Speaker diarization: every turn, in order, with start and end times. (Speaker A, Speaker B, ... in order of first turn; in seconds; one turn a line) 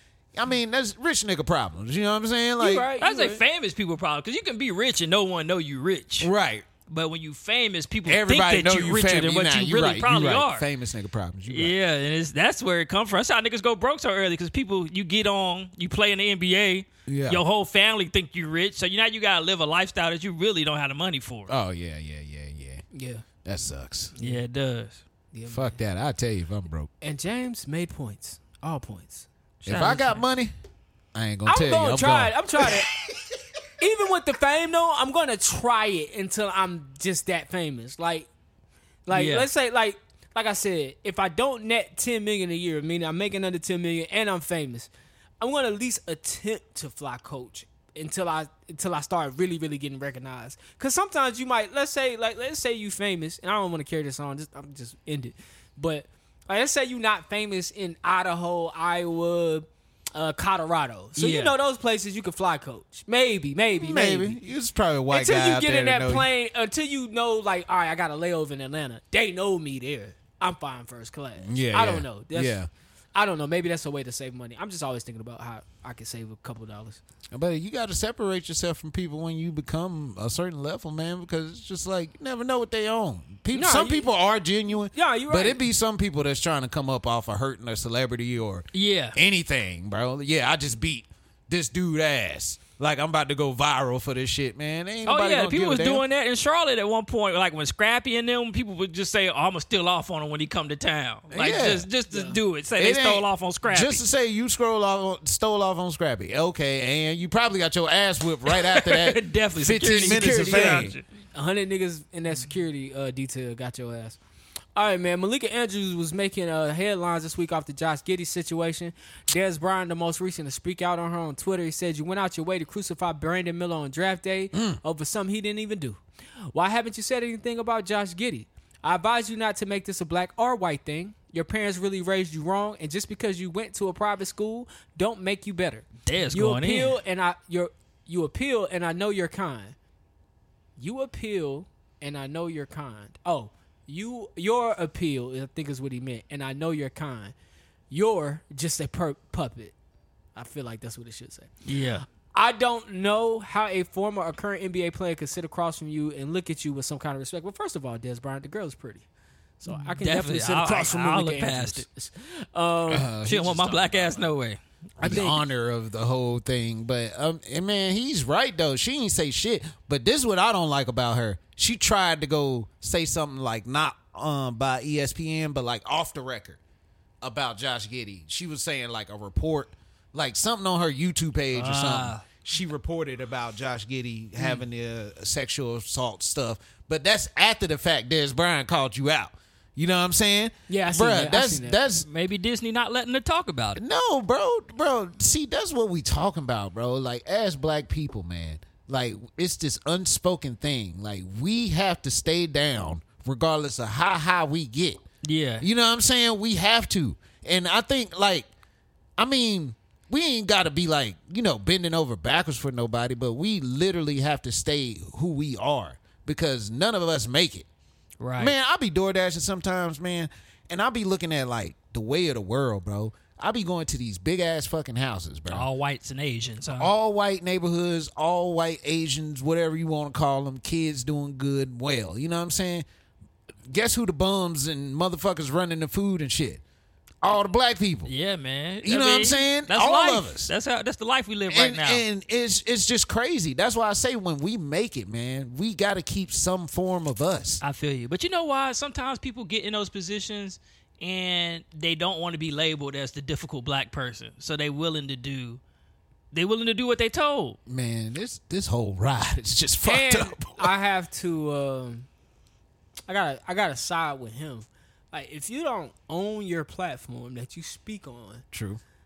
Speaker A: 0.3-2.9
Speaker B: 2.6-3.4
Speaker C: 3.0-6.3
Speaker A: 6.2-6.7
Speaker C: 6.9-10.7
Speaker A: 8.1-11.8
Speaker C: 11.5-21.5
Speaker A: 17.1-17.4
Speaker A: 21.5-22.9
Speaker B: 22.9-23.2
Speaker A: 23.4-24.1
Speaker C: 24.2-25.0
Speaker B: 25.3-25.8
Speaker A: 25.5-26.9
Speaker B: 27.0-29.3
Speaker C: 29.6-30.2
Speaker A: 29.6-30.5
Speaker A: 31.1-32.8
Speaker B: 31.5-32.9
Speaker B: 33.8-38.3
Speaker B: 39.1-44.9
Speaker C: 39.1-39.5
Speaker B: 45.4-64.4
Speaker C: 61.2-61.5
Speaker A: 63.8-66.3
Speaker B: 65.1-72.6
Speaker A: 71.4-72.7
Speaker B: 73.2-77.0
Speaker A: 77.3-96.0
Speaker B: 83.5-84.1
Speaker B: 84.9-85.6
Speaker C: 88.7-89.2
Speaker C: 95.0-104.0
Speaker A: 101.3-101.9
Speaker B: 102.1-102.4
Speaker A: 102.8-111.0
Speaker C: 108.5-111.0
Speaker B: 109.8-114.2
Speaker B: 114.8-126.0
Speaker A: 124.5-124.8
Speaker B: 126.5-139.8
Speaker C: 136.1-137.0
Speaker B: 140.8-147.3
Speaker B: 147.9-149.7
Speaker B: 150.3-151.5
Speaker C: 151.7-152.1
Speaker B: 152.2-159.1
Speaker B: 159.6-163.1
Speaker C: 160.0-161.8
Speaker A: 162.9-164.3
Speaker C: 163.2-165.2
Speaker A: 165.0-176.6
Speaker B: 165.0-165.4
Speaker A: 177.2-192.1
Speaker C: 181.5-182.2
Speaker B: 190.7-191.8
Speaker C: 192.1-193.8
Speaker A: 193.8-205.0
Speaker C: 205.2-205.7
Speaker A: 205.6-208.5
Speaker A: 209.2-217.7
Speaker C: 218.2-218.5
Speaker A: 218.4-225.7
Speaker C: 225.5-226.9
Speaker A: 226.7-232.9
Speaker A: 233.7-236.6
Speaker A: 237.2-238.1
Speaker C: 238.1-242.0
Speaker A: 238.8-240.5
Speaker A: 241.5-247.6
Speaker C: 247.6-255.6
Speaker C: 256.3-257.6
Speaker A: 257.7-260.7
Speaker B: 259.8-262.1
Speaker B: 263.1-268.4
Speaker A: 268.5-268.8